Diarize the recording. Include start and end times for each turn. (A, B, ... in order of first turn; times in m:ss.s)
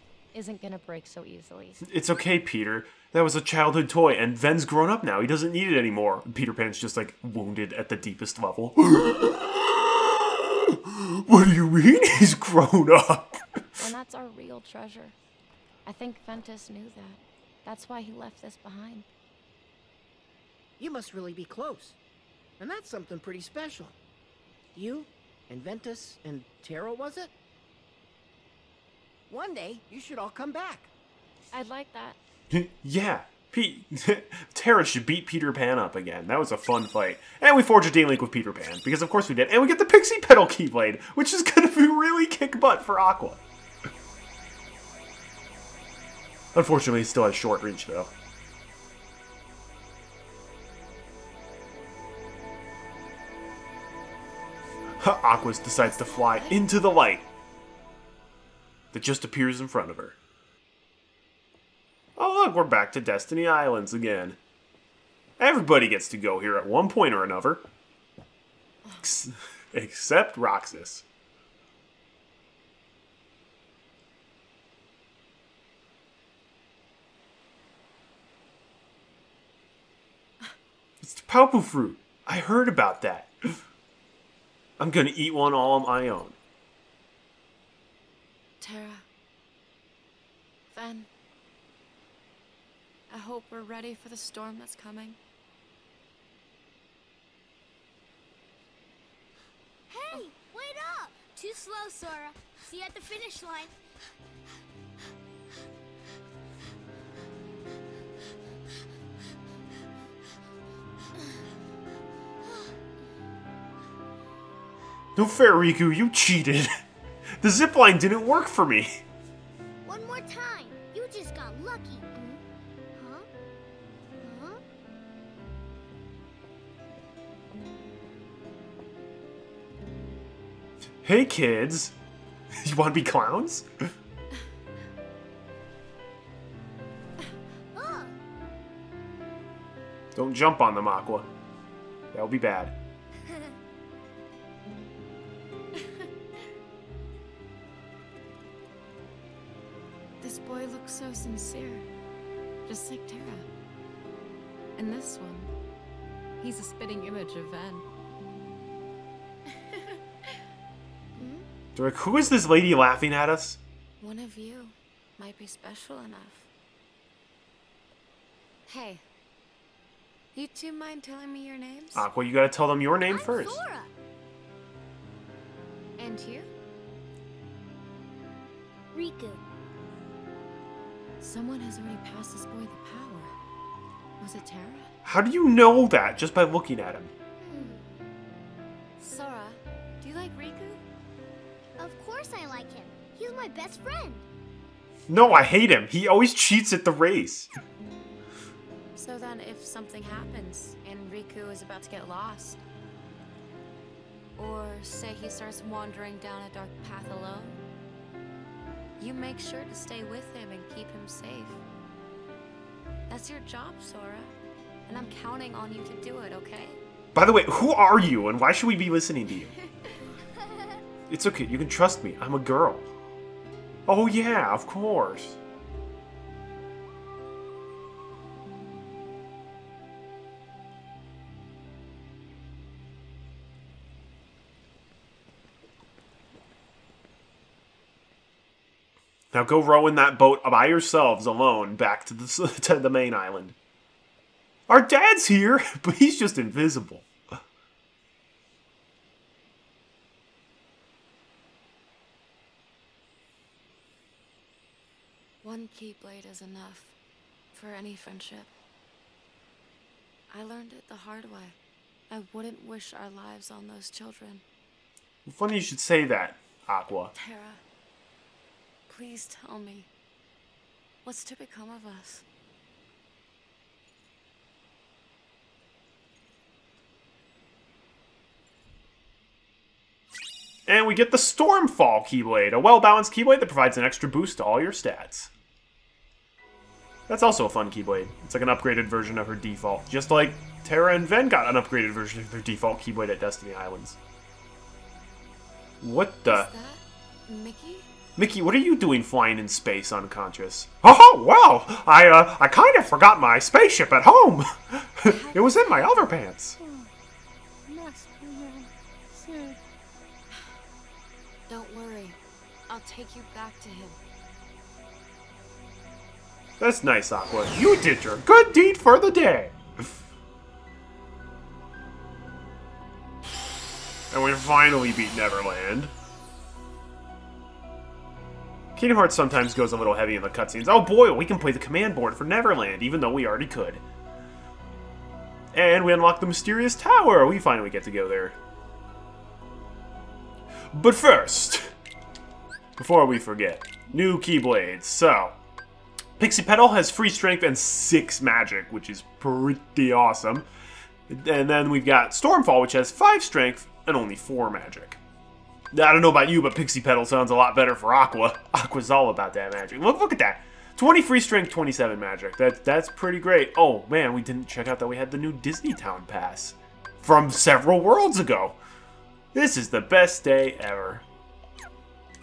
0:00.3-0:01.8 A
0:01.8-0:13.6 B
0:13.8-0:15.2 A
0:15.8-0:19.1 A
0:20.8-0:22.0 C
0:22.6-0:24.0 C
0:24.8-0:27.3 C
0:29.3-0:30.9 C
0:31.5-0:32.2 A
0:32.5-0:43.4 B
0:46.6-0:48.1 B
0:55.0-0:57.3 B
0:56.3-0:56.5 A
0:58.9-1:00.2 B
1:02.2-1:04.4 B
1:05.4-1:07.7 B
1:09.0-1:11.0 B
1:21.0-1:23.6 B
1:24.8-1:26.4 B
1:28.6-1:29.0 A
1:30.7-1:31.1 A
1:33.1-1:35.2 A
1:39.9-1:43.7 D
1:55.2-1:56.7 B
1:57.4-1:59.0 B
1:59.8-2:02.4 D
2:03.0-2:03.3 D
2:04.2-2:04.6 D
2:11.0-2:11.9 B
2:12.6-2:13.7 B
2:17.7-2:18.1 D
2:20.2-2:21.3 B
2:22.1-2:22.8 B
2:30.2-2:31.9 A
2:32.7-2:33.5 A
2:34.8-2:35.5 A
2:36.4-2:37.8 A
2:41.2-2:41.4 D
2:41.8-2:43.6 B
2:44.0-2:46.5 A
2:48.7-2:49.0 A
2:50.3-2:52.1 A
2:51.9-2:53.6 B
2:53.1-2:53.9 D
2:56.0-2:56.5 A
2:58.9-2:59.4 D
3:01.2-3:03.3 A
3:04.2-3:04.9 A
3:05.0-3:07.1 B
3:07.4-3:07.8 D
3:09.0-3:10.8 A
3:11.8-3:14.3 D
3:15.1-3:17.5 B
3:19.0-3:22.6 A
3:24.4-3:27.6 A
3:29.0-3:31.6 A
3:33.1-3:34.3 A
3:34.9-3:36.8 A
3:37.2-3:39.5 B
3:41.1-3:42.9 B
3:43.9-3:45.4 B
3:59.3-4:03.6 B
4:04.7-4:07.1 B
4:15.4-4:17.0 A
4:17.5-4:18.5 A
4:20.3-4:21.6 A
4:22.1-4:24.4 A
4:25.3-4:27.1 B
4:27.2-4:27.6 A
4:28.9-4:29.9 A
4:31.0-4:32.2 A
4:40.7-4:45.3 B
4:47.1-4:54.0 B
4:55.8-4:56.5 B
4:56.2-4:57.9 A
4:58.2-5:06.6 B
5:05.0-5:06.1 A
5:11.5-5:12.2 A
5:12.7-5:14.0 A
5:16.6-5:19.9 B
5:24.1-5:25.9 B
5:28.8-5:33.8 B
5:35.5-5:38.4 B
5:40.7-5:41.7 B
5:42.8-5:45.4 B
5:46.2-5:50.5 B
5:51.1-5:55.0 B
5:55.7-6:08.6 B
6:09.3-6:11.0 B